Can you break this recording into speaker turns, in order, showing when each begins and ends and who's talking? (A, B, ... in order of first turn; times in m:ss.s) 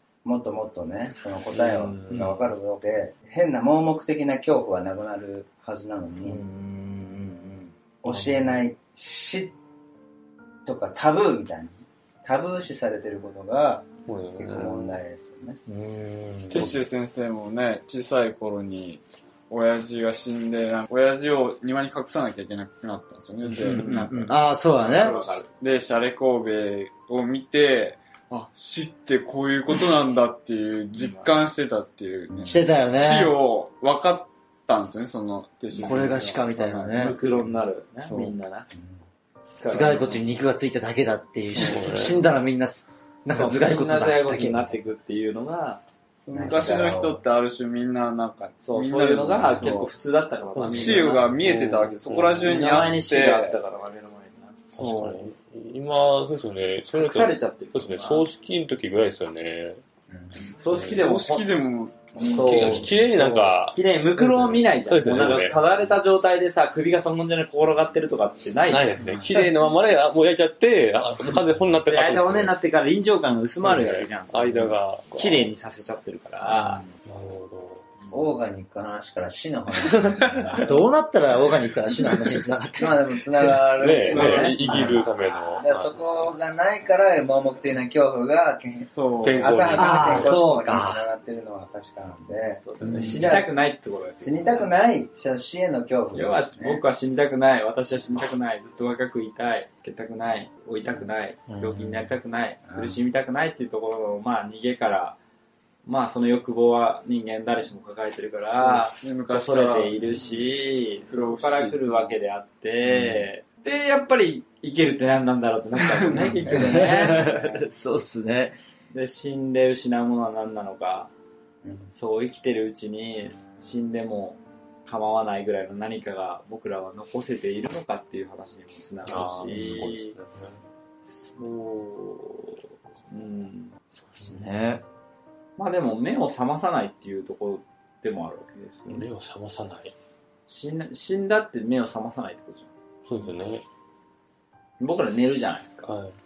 0:00.2-0:06.4 A
0:01.5-0:02.4 B
0:06.2-0:08.6 C
0:08.0-0:09.5 A
0:10.6-0:13.9 A
0:14.1-0:15.0 B
0:14.4-0:15.6 A
0:15.7-0:16.7 C
0:16.5-0:38.4 D
0:23.5-0:24.1 B
0:23.6-0:25.2 C
0:24.8-0:25.5 E
0:31.0-0:31.3 E
0:32.3-0:32.5 A
0:32.4-0:33.3 C
0:35.8-0:36.1 E
0:35.8-0:37.2 C
0:37.0-0:38.7 E
0:38.7-0:39.0 A
0:39.4-0:40.3 E
0:39.7-0:44.7 C
0:41.5-0:41.9 D
0:41.5-0:42.2 B
0:43.2-0:45.8 E
0:46.2-0:49.9 D
0:46.3-0:47.2 A
0:48.6-0:51.3 E
0:50.6-0:53.0 B
0:50.7-0:53.6 D
0:52.4-0:54.6 E
0:54.7-0:59.8 B
0:54.8-0:55.2 C
0:56.9-0:58.3 E
1:00.1-1:00.4 A
1:00.5-1:01.6 E
1:00.7-1:02.9 D
1:02.2-1:02.9 E
1:02.3-1:05.7 B
1:03.2-1:03.5 C
1:03.7-1:09.4 E
1:08.7-1:12.5 B
1:11.9-1:16.8 E
1:13.6-1:15.5 B
1:17.0-1:17.9 B
1:18.1-1:20.9 A
1:20.2-1:23.6 C
1:22.8-1:33.6 A
1:23.8-1:26.3 B
1:24.1-1:24.6 D
1:24.1-1:25.1 C
1:25.3-1:25.6 E
1:28.8-1:29.8 D
1:29.2-1:30.4 B
1:29.8-1:31.0 C
1:32.6-1:34.7 E
1:32.9-1:33.4 C
1:34.2-1:36.8 A
1:36.1-1:45.2 E
1:41.5-1:42.0 C
1:42.7-1:43.0 A
1:45.8-1:57.7 E
1:48.4-1:50.5 D
1:51.1-1:52.2 D
1:55.8-1:56.6 D
1:56.3-1:57.1 A
1:56.5-1:58.6 C
1:58.9-2:01.1 E
2:01.9-2:10.2 E
2:09.1-2:10.6 B
2:11.0-2:13.7 E
2:14.1-2:14.4 B
2:14.2-2:14.8 C
2:15.6-2:19.1 E
2:18.9-2:19.9 B
2:20.5-2:23.3 E
2:23.0-2:23.6 B
2:24.8-2:25.9 E
2:25.9-2:26.2 B